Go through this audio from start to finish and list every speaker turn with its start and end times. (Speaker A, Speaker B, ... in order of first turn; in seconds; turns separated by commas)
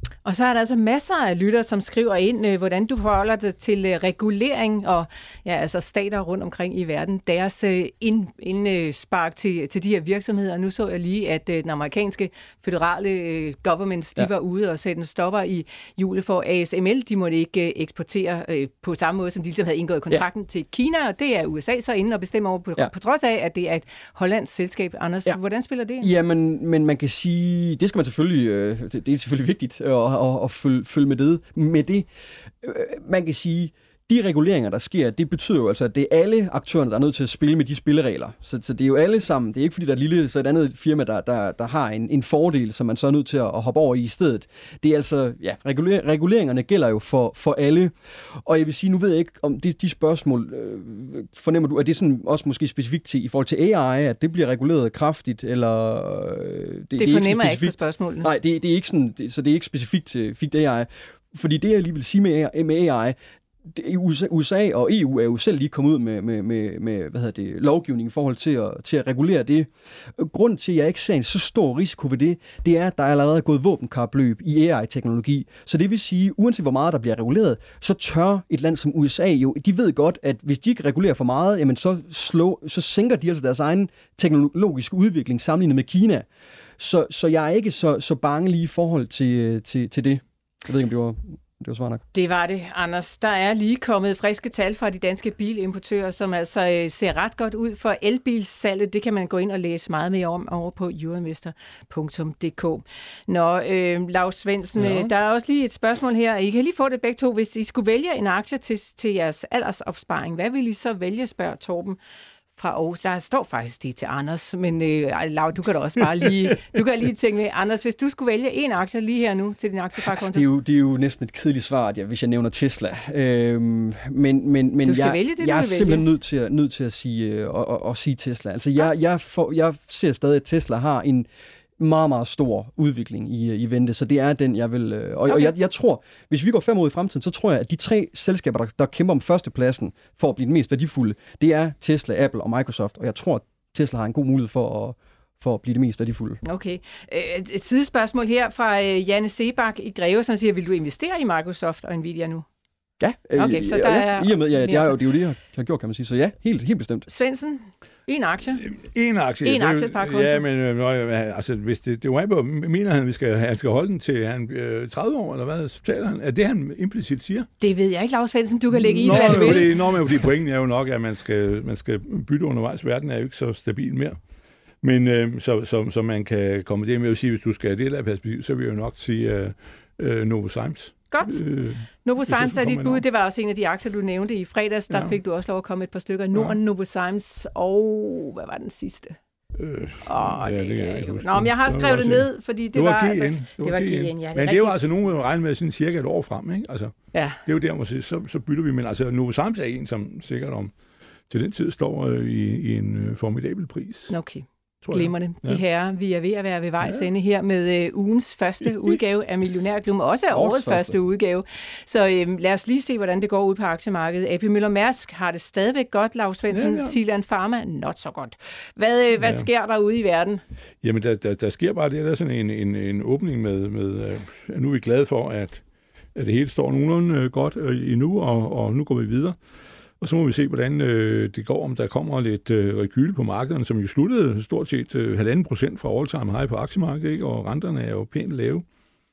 Speaker A: 0.2-26.1, Speaker B: 26.0-32.1, Speaker B: 32.6-86.2, Speaker A: 56.9-58.3, Speaker B: 86.8-92.0, Speaker A: 92.1-112.0, Speaker C: 104.8-105.1, Speaker A: 112.5-120.4, Speaker B: 120.0-146.4, Speaker A: 124.8-126.0, Speaker A: 135.3-135.5, Speaker A: 146.4-152.4, Speaker B: 153.0-157.1, Speaker A: 153.3-155.0, Speaker A: 157.1-158.7, Speaker C: 158.6-167.5, Speaker A: 159.4-160.4, Speaker A: 167.6-169.8, Speaker C: 168.7-174.2, Speaker C: 174.8-183.0, Speaker A: 181.1-181.4, Speaker A: 182.0-189.2, Speaker C: 184.9-185.2, Speaker C: 189.6-200.7, Speaker A: 190.0-194.8, Speaker A: 197.1-197.4, Speaker C: 201.3-204.1, Speaker A: 204.1-220.4, Speaker C: 204.8-205.6, Speaker C: 206.8-207.1, Speaker B: 210.3-210.9, Speaker C: 216.5-216.9, Speaker C: 219.2-219.5, Speaker C: 220.8-225.6, Speaker C: 226.1-229.3, Speaker C: 230.0-238.6